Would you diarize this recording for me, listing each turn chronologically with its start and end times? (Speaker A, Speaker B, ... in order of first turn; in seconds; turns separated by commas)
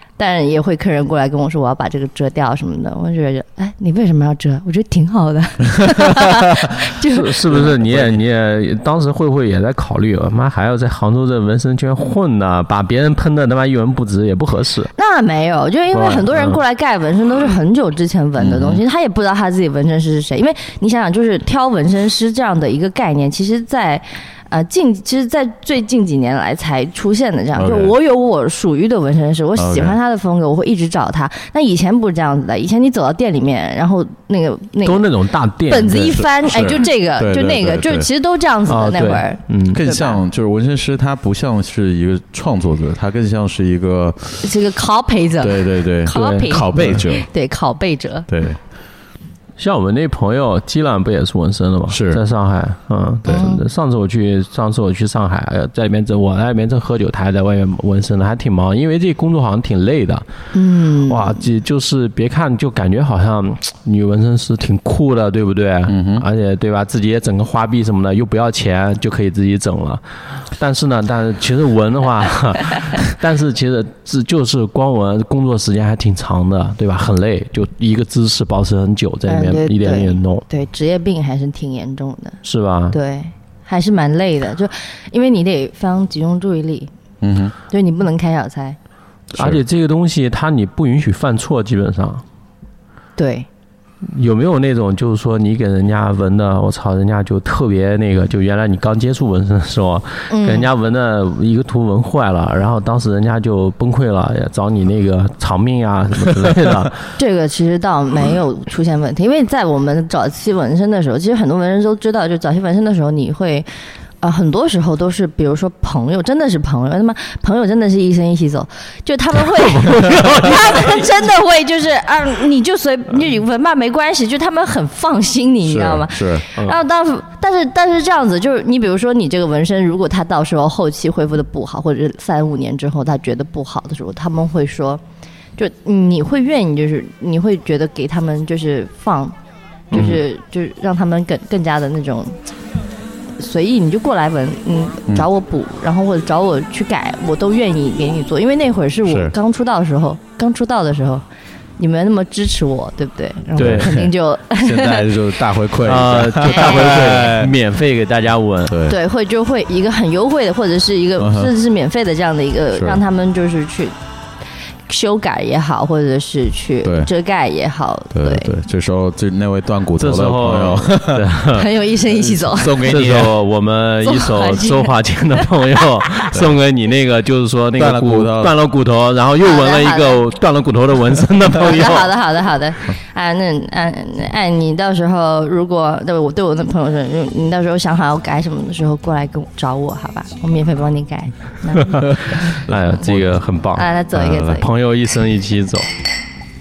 Speaker A: 0.2-7.5, Speaker B: 7.0-14.9, Speaker C: 7.5-8.2, Speaker A: 14.9-35.1, Speaker B: 15.9-16.6, Speaker C: 18.4-18.8, Speaker C: 27.6-27.9, Speaker C: 29.6-30.0, Speaker B: 34.8-36.2, Speaker A: 35.7-40.2, Speaker C: 36.2-38.1, Speaker B: 38.7-39.8, Speaker C: 39.7-44.5, Speaker A: 44.4-48.3, Speaker C: 45.4-47.3, Speaker B: 46.1-47.0, Speaker C: 48.3-48.6, Speaker B: 49.6-60.2, Speaker C: 51.9-52.2, Speaker A: 53.3-53.6, Speaker A: 60.5-61.4, Speaker B: 61.1-80.4, Speaker C: 65.9-66.2, Speaker A: 79.3-82.4, Speaker B: 82.4-83.0, Speaker A: 82.9-86.9, Speaker C: 87.2-87.5, Speaker A: 87.7-88.8, Speaker C: 89.3-89.6, Speaker B: 89.3-92.2, Speaker A: 93.2-93.5, Speaker B: 94.0-107.0, Speaker A: 100.3-100.7, Speaker A: 107.2-113.7, Speaker A: 114.2-135.0, Speaker B: 119.5-121.1, Speaker C: 125.7-126.5, Speaker A: 135.6-139.3, Speaker A: 139.9-142.4, Speaker C: 139.9-140.2, Speaker A: 143.4-151.2, Speaker C: 149.1-149.3, Speaker A: 151.8-155.1, Speaker B: 153.6-154.1, Speaker C: 153.6-157.5, Speaker B: 155.8-158.8, Speaker A: 156.5-157.2, Speaker C: 158.7-159.0, Speaker A: 158.9-163.9, Speaker C: 161.2-161.5, Speaker A: 164.9-168.5, Speaker C: 166.8-167.1, Speaker C: 168.1-171.3, Speaker B: 170.0-171.7, Speaker A: 171.5-172.8, Speaker C: 172.5-173.4, Speaker B: 172.8-182.1, Speaker A: 174.0-175.5, Speaker C: 177.8-178.6, Speaker A: 179.4-180.2, Speaker A: 181.5-192.2, Speaker B: 191.9-195.9, Speaker C: 193.1-193.3, Speaker A: 193.7-194.7, Speaker C: 194.2-194.4